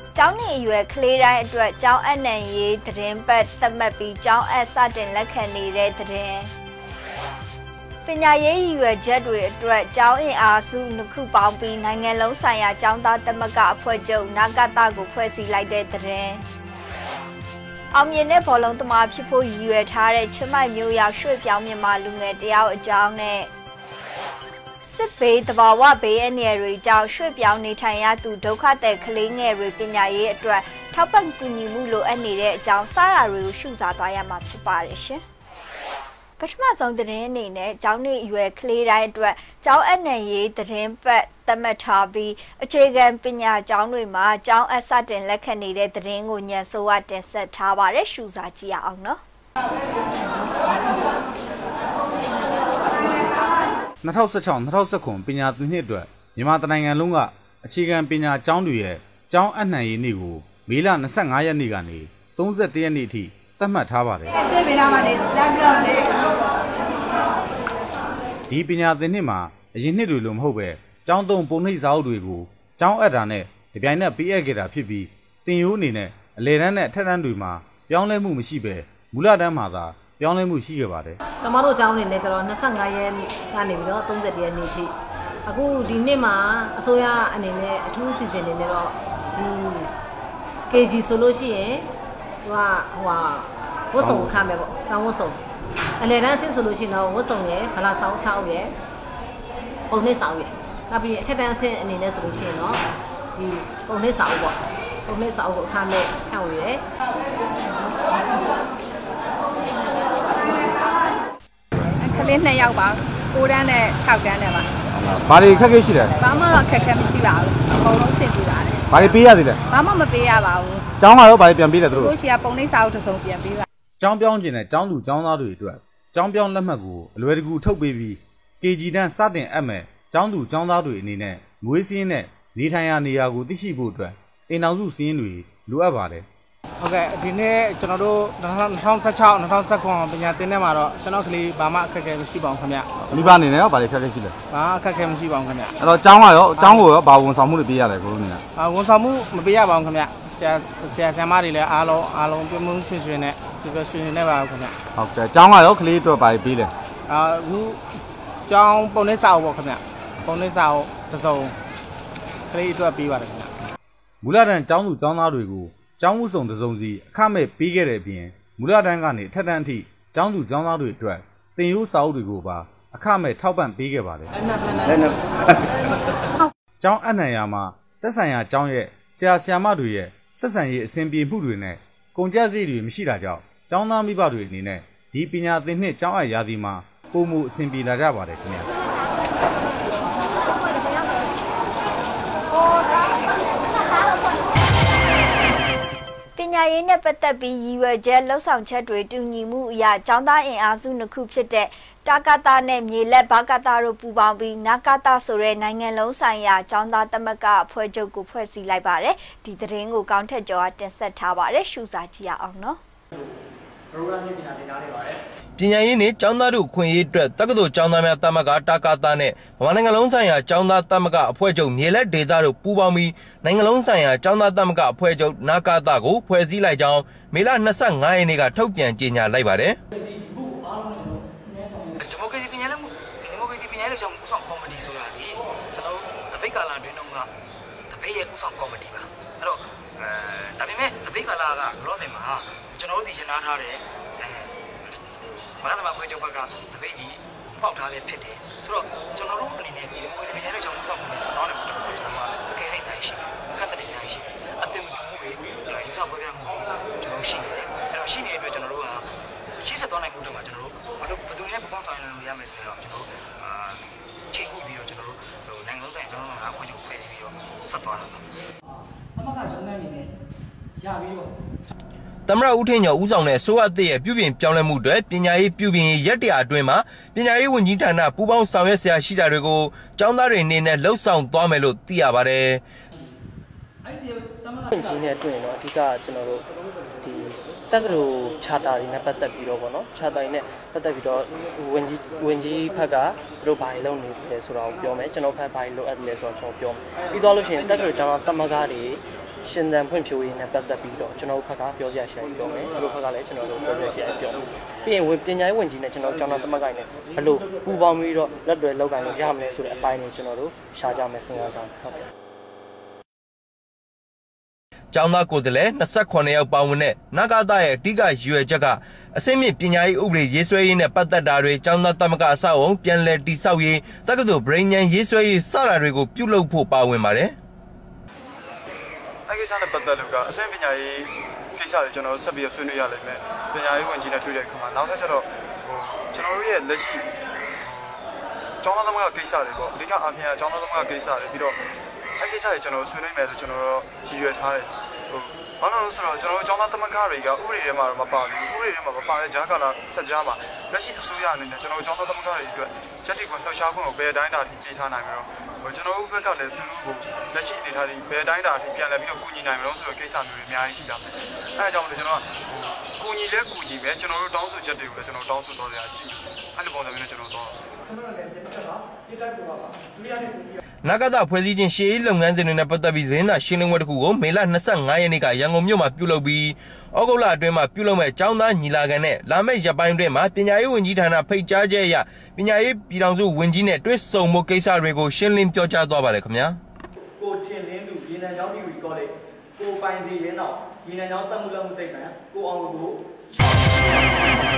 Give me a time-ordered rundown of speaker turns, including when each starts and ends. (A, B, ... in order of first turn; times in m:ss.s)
0:00.1-0:06.5 A
0:08.0-0:16.4 A
0:17.9-0:23.5 A
0:24.8-0:35.2 A
0:36.4-0:49.2 A
0:54.0-1:04.3 B
1:08.5-1:21.2 B
1:21.4-1:24.9 C
1:25.4-1:29.9 C
1:30.7-1:31.8 C
1:32.4-1:35.4 C
1:34.0-1:34.3 B
1:36.0-1:38.7 C
1:39.9-1:42.8 C
1:43.4-1:46.8 C
1:51.9-1:54.7 D
1:55.0-1:56.1 B
1:56.2-2:00.8 D
1:58.9-1:59.6 B
2:01.0-2:02.1 B
2:01.9-2:03.6 D
2:04.0-2:16.2 B
2:16.8-2:23.4 E
2:23.0-2:24.3 B
2:24.5-2:25.7 E
2:25.8-2:28.4 B
2:26.6-2:26.9 E
2:28.6-2:34.7 E
2:35.0-2:36.7 B
2:37.1-2:37.8 E
2:38.5-2:41.5 E
2:42.5-2:43.5 E
2:44.2-2:54.3 B
2:56.8-3:08.7 B
3:16.4-3:32.8 A
3:33.9-3:35.2 F
3:35.6-3:49.8 G
3:52.0-3:57.3 H
3:57.9-4:05.0 H
4:05.6-4:28.2 H
4:32.3-4:42.6 G
4:44.5-4:46.4 I
4:47.0-5:12.1 I
5:14.9-5:27.3 G
5:29.3-5:37.0 J
5:37.6-5:38.0 J
5:38.6-5:41.6 J
5:42.2-6:01.0 J
6:01.6-6:07.6 J
6:08.3-6:10.4 F
6:10.8-6:26.6 G
6:27.2-6:34.1 F